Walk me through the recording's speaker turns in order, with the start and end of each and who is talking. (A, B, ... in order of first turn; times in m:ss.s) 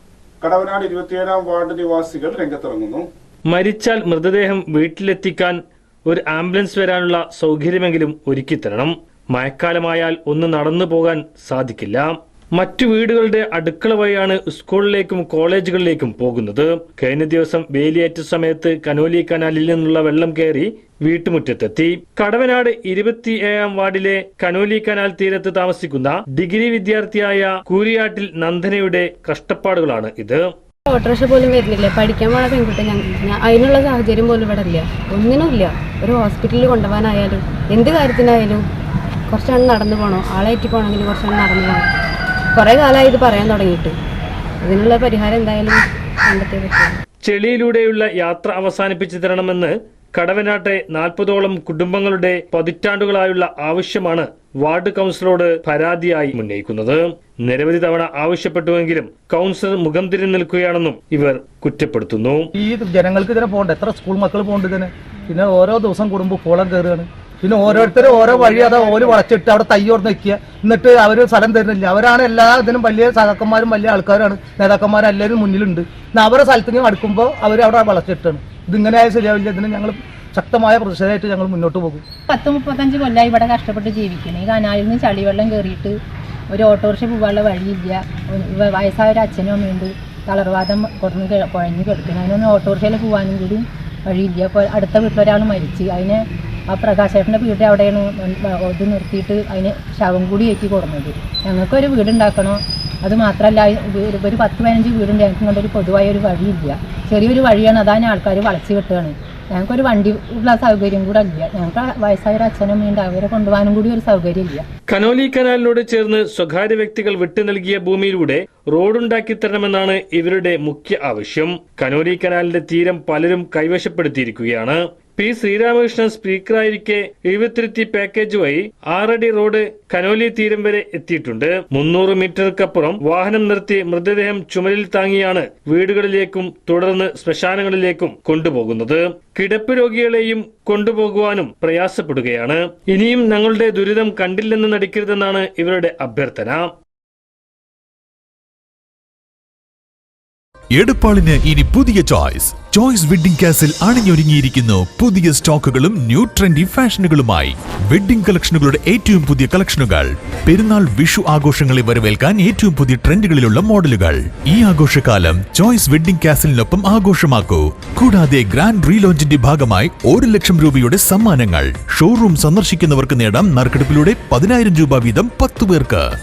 0:00.4-0:03.0 A
0:03.5-0:30.5 B
0:31.1-0:38.6 C
0:40.0-0:41.7 C
0:42.7-0:43.5 C
0:44.7-0:45.8 C
0:47.2-1:02.5 B
1:02.6-1:22.0 D
1:07.7-1:09.1 A
1:22.3-1:26.0 E
1:26.5-1:54.6 E
1:54.9-2:26.7 B
2:30.8-2:56.1 F